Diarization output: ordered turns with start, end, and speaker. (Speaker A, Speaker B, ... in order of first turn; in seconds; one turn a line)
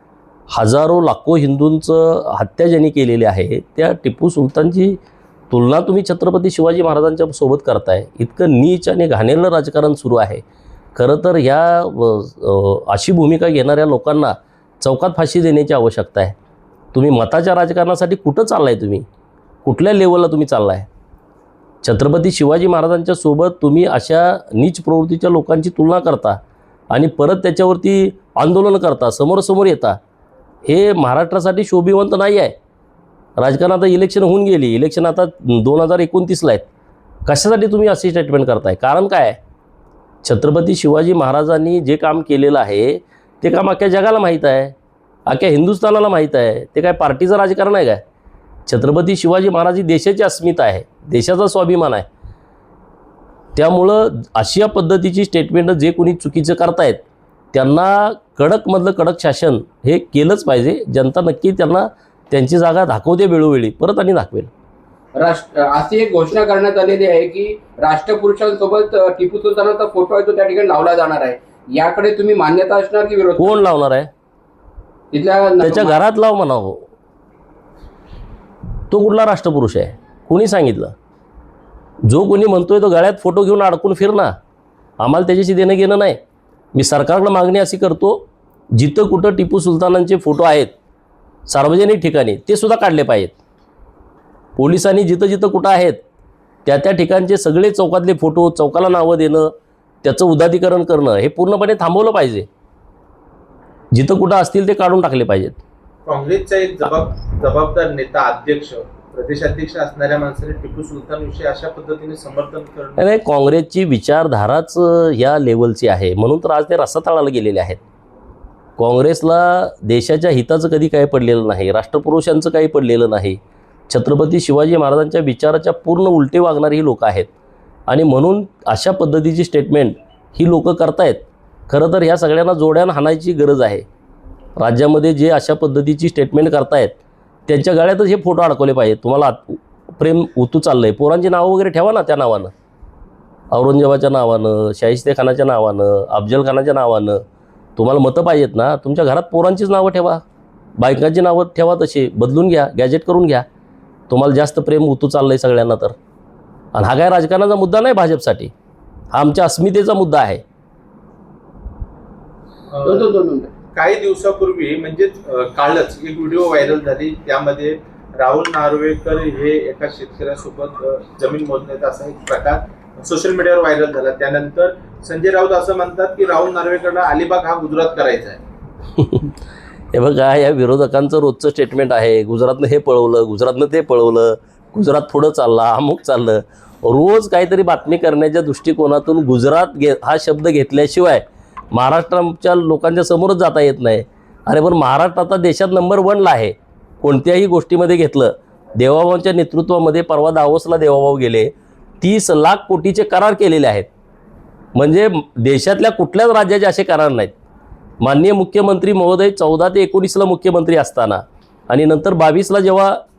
Speaker A: 0.5-5.0
Speaker A: 5.5-10.4
Speaker A: 10.9-16.4
Speaker A: 16.9-19.0
Speaker A: 19.6-20.9
Speaker A: 21.8-30.0
Speaker A: 30.6-32.5
Speaker A: 33.4-36.6
Speaker A: 37.2-39.4
Speaker A: 40.2-44.7
Speaker A: 45.3-48.0
Speaker A: 48.7-52.0
Speaker A: 53.5-57.0
Speaker A: 57.5-64.5
Speaker B: 65.2-73.6
Speaker A: 73.4-74.1
Speaker B: 75.1-76.0
Speaker A: 75.6-76.9
Speaker A: 78.9-80.9
Speaker A: 82.0-84.3
Speaker A: 85.0-86.2
Speaker A: 86.7-90.7
Speaker A: 91.5-93.3
Speaker A: 94.6-96.0
Speaker A: 96.6-99.5
Speaker A: 100.0-102.5
Speaker A: 103.9-105.6
Speaker C: 106.0-113.0
Speaker A: 113.0-117.8
Speaker A: 118.8-127.3
Speaker A: 127.9-133.8
Speaker A: 134.6-136.9
Speaker A: 137.5-142.5
Speaker A: 143.5-147.2
Speaker A: 147.8-150.2
Speaker A: 150.8-153.4
Speaker A: 154.1-155.9
Speaker A: 156.7-158.5
Speaker A: 159.1-160.4
Speaker C: 162.7-163.0
Speaker B: 162.8-163.5
Speaker C: 163.7-178.4
Speaker A: 179.0-179.3
Speaker A: 179.9-203.9
Speaker A: 204.7-207.3
Speaker A: 208.0-213.0